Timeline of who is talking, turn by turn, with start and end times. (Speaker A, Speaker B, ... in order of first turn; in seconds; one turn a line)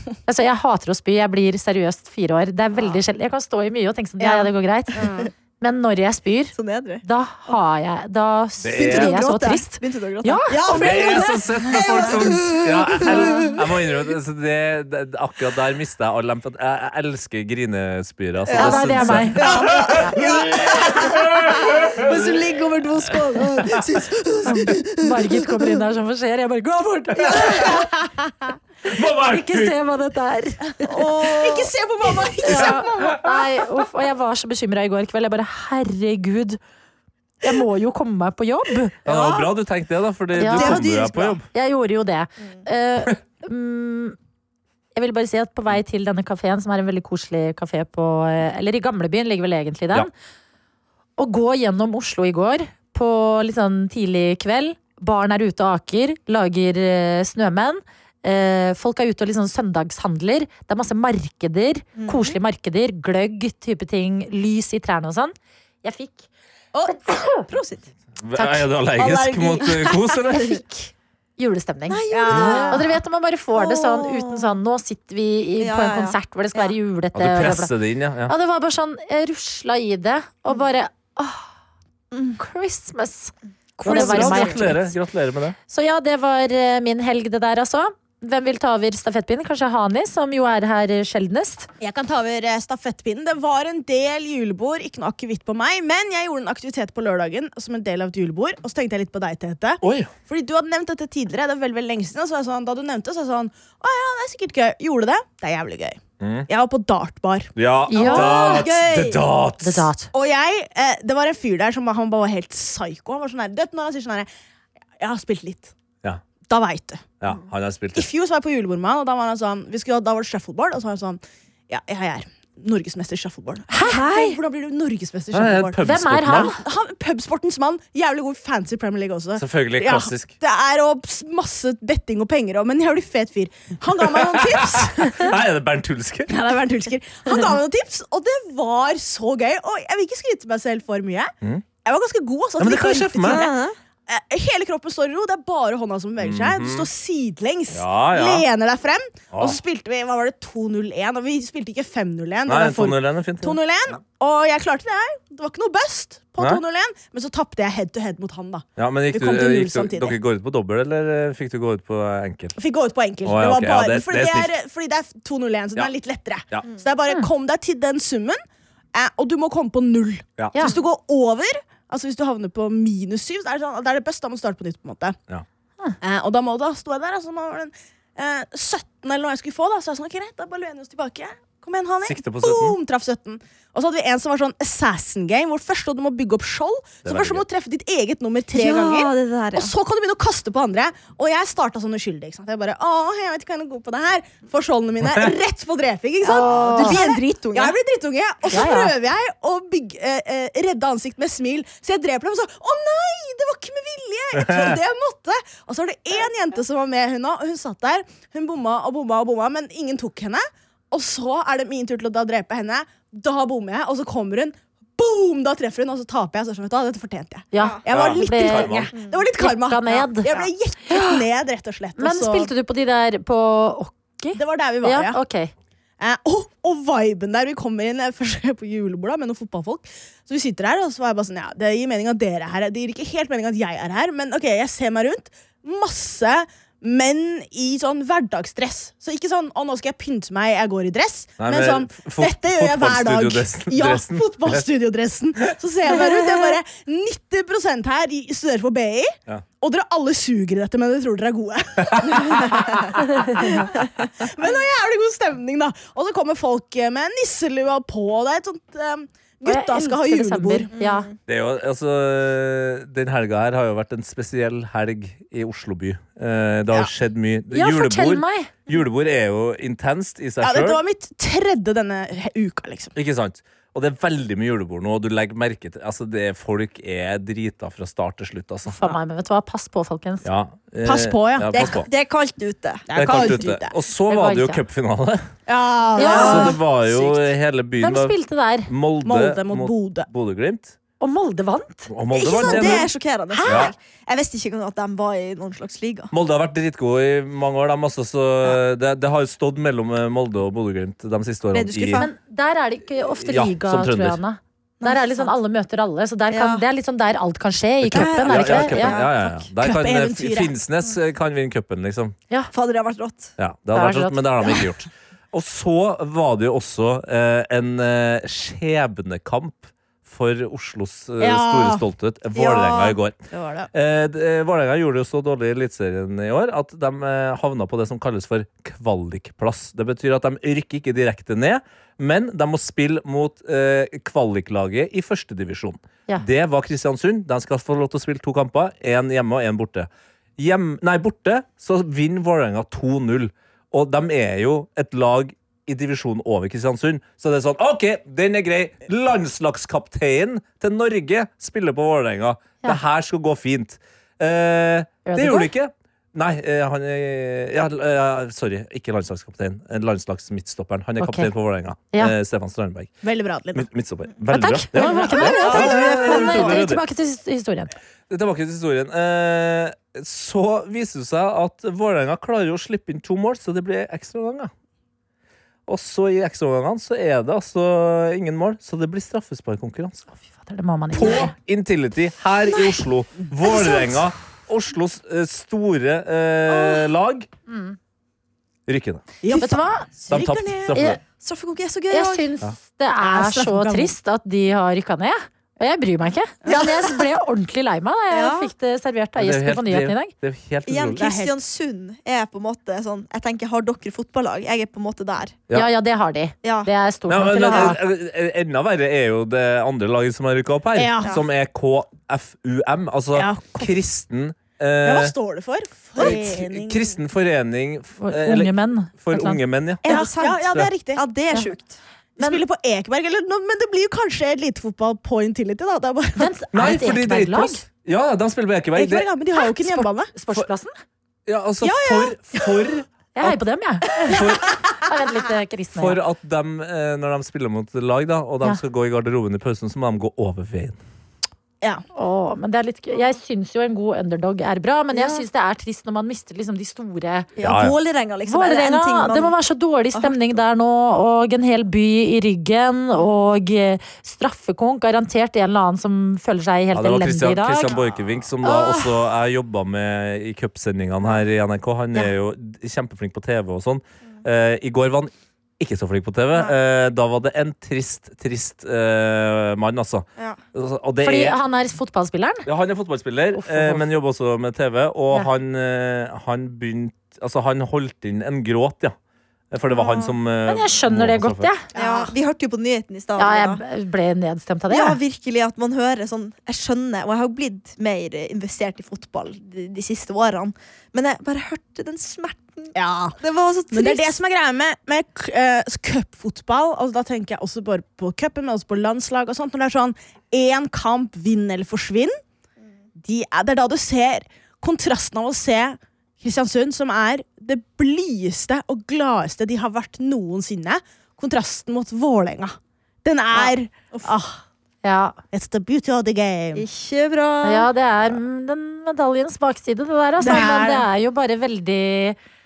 Speaker A: 0.3-5.1
Speaker B: 4.2-5.3
Speaker C: 5.0-5.3
Speaker A: 5.6-11.0
Speaker B: 6.5-7.0
Speaker D: 8.6-9.2
Speaker B: 8.8-13.7
Speaker D: 10.7-22.3
Speaker B: 18.5-25.8
Speaker A: 18.5-20.1
Speaker D: 23.6-24.0
Speaker A: 24.4-27.8
Speaker D: 27.2-27.8
Speaker B: 27.2-27.8
Speaker D: 28.9-29.8
Speaker A: 29.1-30.9
Speaker B: 30.8-31.7
Speaker C: 31.2-33.2
Speaker A: 32.5-36.6
Speaker A: 37.4-39.1
Speaker D: 39.0-41.5
Speaker B: 39.1-39.5
Speaker A: 40.4-40.9
Speaker B: 40.5-41.4
Speaker A: 41.5-44.2
Speaker A: 45.0-50.1
Speaker A: 51.2-66.3
Speaker B: 62.0-62.4
Speaker B: 66.7-67.9
Speaker A: 66.9-67.5
Speaker D: 68.2-70.6
Speaker A: 68.4-68.7
Speaker B: 69.0-70.6
Speaker A: 70.3-72.1
Speaker B: 71.9-72.8
Speaker C: 72.1-72.8
Speaker D: 72.3-72.8
Speaker A: 72.7-77.7
Speaker B: 73.5-74.5
Speaker B: 75.6-76.7
Speaker D: 77.2-78.3
Speaker A: 78.3-81.5
Speaker B: 82.1-82.4
Speaker A: 82.4-85.0
Speaker B: 83.8-84.7
Speaker D: 83.8-85.6
Speaker A: 85.7-91.7
Speaker C: 91.8-107.5
Speaker D: 99.8-100.1
Speaker D: 106.2-106.5
Speaker D: 107.6-109.9
Speaker A: 107.9-108.7
Speaker B: 108.0-109.2
Speaker C: 108.1-109.2
Speaker A: 109.6-110.1
Speaker C: 110.1-114.3
Speaker C: 115.0-115.7
Speaker C: 116.5-117.1
Speaker D: 117.2-118.1
Speaker C: 118.0-125.8
Speaker A: 123.7-124.2
Speaker B: 123.8-124.4
Speaker D: 125.3-126.5
Speaker A: 125.8-126.6
Speaker C: 126.5-135.4
Speaker D: 129.4-130.3
Speaker D: 134.0-136.5
Speaker C: 136.3-141.3
Speaker C: 141.8-143.5
Speaker D: 142.6-143.5
Speaker B: 143.2-143.8
Speaker C: 144.1-160.2
Speaker D: 146.2-146.9
Speaker D: 147.7-148.5
Speaker D: 149.3-149.6
Speaker D: 152.5-153.6
Speaker D: 158.8-162.6
Speaker C: 162.6-168.4
Speaker D: 163.2-164.5
Speaker C: 168.9-175.2
Speaker C: 176.0-222.5
Speaker D: 182.0-182.8
Speaker D: 187.0-187.4
Speaker B: 188.5-189.7
Speaker D: 195.0-195.3
Speaker A: 196.2-197.0
Speaker B: 196.2-197.8
Speaker A: 198.5-198.9
Speaker D: 204.4-204.8
Speaker A: 217.5-221.2
Speaker B: 217.6-217.8
Speaker D: 217.9-218.9
Speaker B: 218.9-219.3
Speaker A: 222.0-225.5
Speaker C: 224.3-225.2
Speaker C: 226.0-260.7
Speaker D: 241.4-244.7
Speaker D: 251.9-252.5
Speaker A: 253.0-253.6
Speaker A: 259.4-261.1
Speaker B: 260.7-261.1
Speaker D: 261.3-270.8
Speaker A: 267.5-268.5
Speaker C: 270.4-272.9
Speaker D: 272.9-278.8
Speaker A: 278.7-280.3
Speaker D: 280.2-281.9
Speaker C: 280.8-281.8
Speaker B: 281.5-283.5
Speaker C: 282.9-283.7
Speaker D: 282.9-285.2
Speaker A: 284.1-284.6
Speaker C: 285.5-286.6
Speaker A: 286.0-287.1
Speaker B: 286.0-286.6
Speaker D: 286.1-288.2
Speaker A: 287.8-288.7
Speaker D: 288.7-290.8
Speaker C: 289.1-290.1
Speaker A: 291.0-291.9
Speaker D: 291.9-292.9
Speaker B: 292.1-296.1
Speaker C: 292.4-292.8
Speaker D: 293.5-293.7
Speaker D: 296.1-302.0
Speaker B: 301.5-302.1
Speaker A: 302.0-309.0
Speaker D: 303.2-304.2
Speaker B: 304.8-305.3
Speaker B: 306.3-306.6
Speaker D: 307.8-312.1
Speaker B: 307.9-309.1
Speaker C: 308.9-310.5
Speaker B: 312.5-313.3
Speaker D: 313.4-323.2
Speaker A: 313.7-314.6
Speaker C: 321.2-321.9
Speaker C: 322.4-323.7
Speaker B: 322.4-322.9
Speaker D: 323.7-363.0
Speaker A: 355.1-355.5
Speaker A: 361.0-361.3
Speaker C: 363.0-363.7
Speaker D: 363.6-366.8
Speaker A: 364.3-367.7
Speaker B: 364.8-366.6
Speaker C: 365.4-365.9
Speaker D: 368.1-374.5
Speaker D: 375.7-380.1
Speaker A: 380.2-381.3
Speaker D: 380.9-387.3
Speaker C: 383.4-383.9
Speaker B: 386.5-386.9
Speaker A: 387.5-387.8
Speaker D: 388.7-389.1
Speaker C: 389.2-390.8
Speaker A: 389.3-389.9
Speaker D: 390.1-391.0
Speaker A: 390.7-391.0
Speaker B: 391.2-392.3
Speaker A: 391.9-400.1
Speaker C: 393.0-393.9
Speaker B: 396.5-397.0
Speaker B: 398.1-398.5
Speaker D: 399.2-401.1
Speaker B: 400.7-405.4
Speaker C: 401.0-401.4
Speaker A: 405.5-407.8
Speaker B: 406.4-406.7
Speaker D: 407.1-415.1
Speaker C: 410.8-411.2
Speaker C: 413.1-413.7
Speaker C: 414.8-417.0
Speaker D: 416.0-420.7
Speaker B: 416.0-416.2
Speaker A: 418.0-419.4
Speaker B: 419.8-421.8
Speaker C: 419.9-421.0
Speaker C: 422.2-426.3
Speaker A: 426.2-427.6
Speaker D: 426.5-429.1
Speaker C: 428.8-430.1
Speaker A: 429.4-430.8
Speaker D: 431.3-433.4
Speaker C: 431.6-432.5
Speaker A: 433.1-434.2
Speaker D: 434.0-434.6
Speaker A: 434.8-436.0
Speaker D: 435.8-440.8
Speaker A: 441.9-447.3
Speaker B: 444.9-445.2
Speaker B: 447.4-449.4
Speaker D: 447.4-447.8
Speaker A: 448.3-457.8
Speaker D: 456.7-471.4
Speaker A: 458.4-459.0
Speaker A: 471.0-472.5
Speaker D: 472.5-478.9
Speaker A: 473.3-473.9
Speaker D: 479.5-481.5
Speaker B: 479.7-480.2
Speaker A: 480.5-481.6
Speaker C: 481.7-482.1
Speaker B: 481.8-483.6
Speaker A: 483.2-485.0
Speaker B: 484.7-494.2
Speaker C: 492.8-493.2
Speaker C: 493.7-502.2
Speaker C: 503.0-514.4
Speaker B: 513.3-514.2
Speaker A: 514.8-515.2
Speaker C: 515.3-516.7
Speaker B: 516.5-517.7
Speaker A: 517.4-522.2
Speaker C: 520.2-520.9